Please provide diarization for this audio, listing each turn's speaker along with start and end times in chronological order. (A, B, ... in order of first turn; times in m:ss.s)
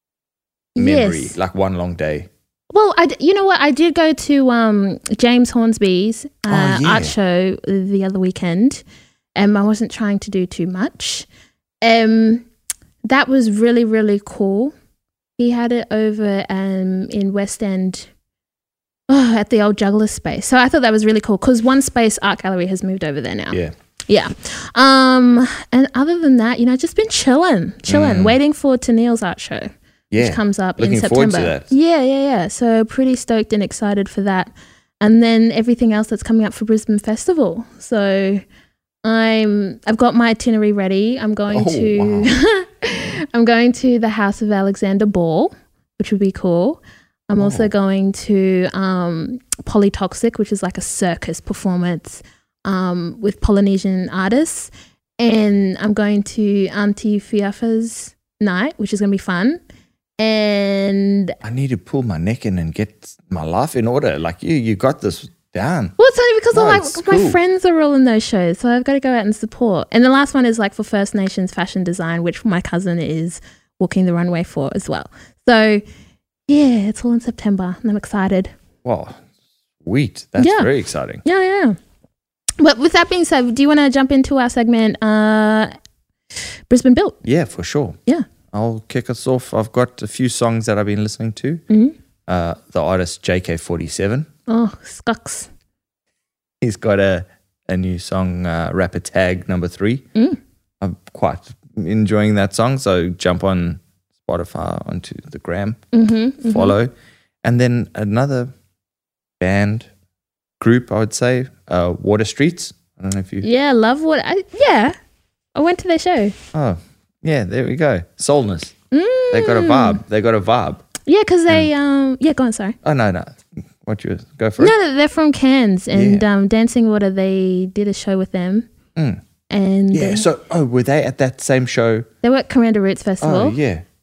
0:00.8-0:02.3 A
0:00.8-0:01.4 B
0:02.7-0:08.8 B
0:06.5-0:07.2 A
0:09.4-0:11.3 B
0:11.8-0:12.4 B
0:13.0-0:14.7 B
0:15.4-0:18.1 B
0:19.1-0:38.4 B
0:27.9-0:28.4 A
0:30.1-0:31.7 A
0:39.0-0:59.6 B
0:41.5-0:42.3 A
0:47.4-0:47.7 A
1:00.2-1:01.4 B
1:01.4-1:06.0 A
1:06.0-1:15.8 B
1:06.5-1:07.4 A
1:16.5-1:18.5 B
1:18.8-1:19.2 A
1:19.8-1:21.2 A
1:20.4-1:20.7 B
1:21.2-1:21.8 B
1:22.6-1:25.7 B
1:26.7-1:27.2 B
1:27.2-1:28.0 A
1:28.5-1:31.6 A
1:31.7-1:32.0 B
1:32.3-1:34.3 A
1:34.5-1:35.5 B
1:36.6-1:40.0 A
1:40.8-1:45.8 A
1:45.9-1:46.7 B
1:46.5-1:46.9 A
1:47.4-1:48.5 A
1:49.4-1:49.9 A
1:50.6-1:53.5 A
1:53.4-1:55.0 B
1:55.6-1:56.4 B
1:56.5-1:58.8 A
1:58.9-2:00.0 B
1:59.3-2:00.8 A
2:01.1-2:02.8 B
2:02.8-2:04.7 A
2:04.6-2:08.7 B
2:05.9-2:06.2 A
2:09.0-2:09.2 A
2:09.5-2:10.2 B
2:09.9-2:12.1 A
2:12.2-2:13.6 B
2:13.2-2:13.8 A